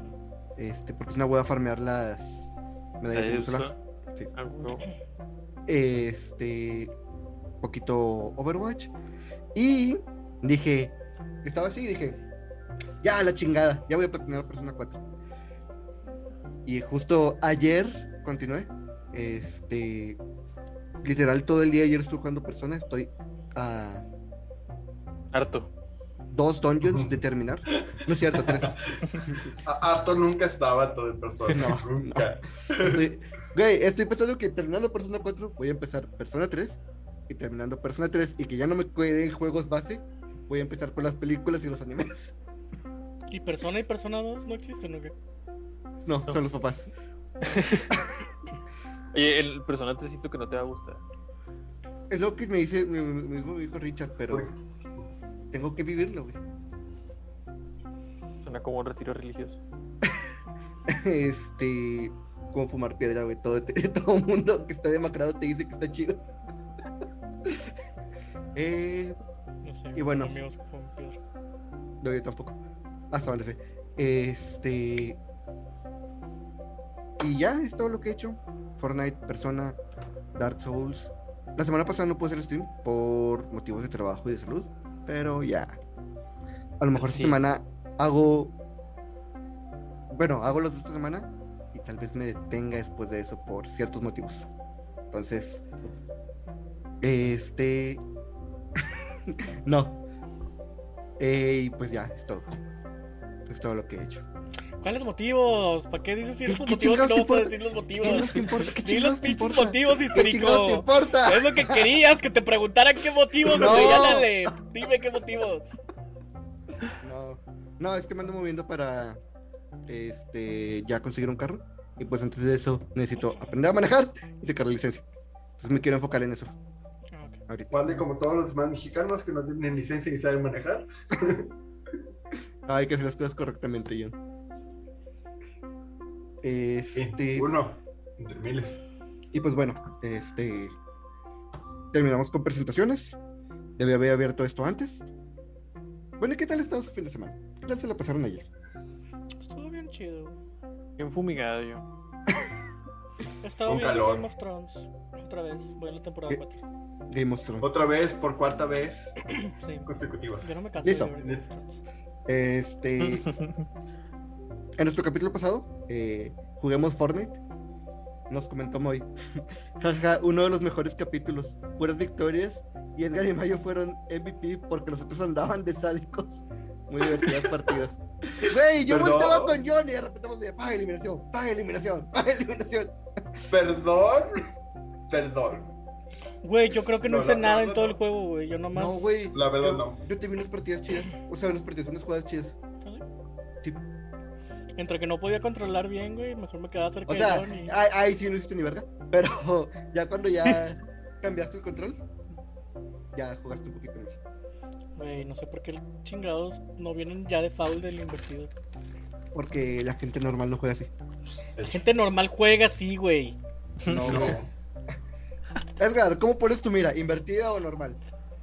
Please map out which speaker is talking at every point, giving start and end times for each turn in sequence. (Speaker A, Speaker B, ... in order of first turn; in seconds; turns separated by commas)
Speaker A: 0.6-4.3, Speaker B: 3.1-3.8, Speaker B: 4.3-4.9, Speaker A: 5.7-6.9, Speaker A: 7.6-8.9, Speaker A: 9.6-12.2, Speaker A: 13.0-15.0, Speaker A: 16.6-20.2, Speaker A: 21.0-24.1, Speaker B: 25.3-25.7, Speaker A: 26.3-29.5, Speaker C: 26.9-27.1, Speaker C: 27.9-33.0, Speaker B: 31.5-31.8, Speaker A: 31.5-42.4, Speaker D: 43.3-45.1, Speaker A: 46.0-46.9, Speaker B: 47.4-47.9, Speaker B: 49.1-51.0, Speaker A: 52.1-54.5, Speaker C: 54.3-55.1, Speaker A: 55.5-56.4, Speaker B: 58.4-59.6, Speaker A: 60.9-66.2, Speaker A: 68.5-69.2, Speaker D: 69.6-71.2, Speaker A: 70.0-70.3, Speaker A: 72.0-72.6, Speaker A: 73.1-75.2, Speaker A: 77.2-79.8, Speaker A: 80.3-85.8, Speaker A: 86.8-88.5, Speaker B: 87.0-87.4, Speaker A: 90.1-94.5, Speaker A: 95.1-95.6, Speaker A: 97.0-98.0, Speaker A: 98.8-100.0, Speaker A: 101.2-102.5, Speaker A: 103.5-104.2, Speaker D: 104.8-115.8, Speaker A: 106.5-112.0, Speaker A: 113.5-114.4, Speaker A: 117.0-119.2, Speaker A: 119.9-125.0, Speaker A: 125.6-126.5, Speaker D: 127.1-127.4, Speaker A: 127.5-127.8, Speaker C: 127.7-131.5, Speaker A: 132.7-134.2, Speaker A: 136.4-137.5, Speaker C: 136.9-138.8, Speaker A: 139.3-140.8, Speaker A: 141.9-143.2, Speaker A: 143.8-145.1, Speaker A: 146.2-148.5, Speaker D: 149.4-150.4, Speaker B: 151.0-151.8, Speaker D: 153.4-156.6, Speaker C: 153.7-154.3, Speaker A: 157.1-157.7, Speaker C: 157.6-159.2, Speaker D: 159.4-159.9, Speaker C: 159.8-160.5, Speaker D: 160.4-161.8, Speaker A: 160.8-161.1, Speaker C: 161.2-161.4, Speaker A: 162.3-163.3, Speaker B: 163.0-163.7, Speaker A: 164.8-167.4, Speaker A: 168.3-169.1, Speaker A: 169.8-182.9, Speaker C: 177.0-177.6, Speaker C: 178.9-179.6, Speaker C: 183.5-184.5, Speaker C: 185.1-185.7, Speaker D: 186.4-189.3, Speaker C: 187.0-188.0, Speaker A: 188.7-192.6, Speaker C: 189.3-190.0, Speaker D: 194.8-197.8, Speaker A: 197.1-202.0, Speaker A: 203.1-204.2, Speaker D: 205.0-208.5, Speaker A: 209.3-210.9, Speaker C: 211.6-211.8, Speaker D: 211.7-213.4, Speaker B: 213.8-214.4, Speaker A: 213.9-214.4, Speaker C: 214.0-214.5, Speaker A: 215.8-218.0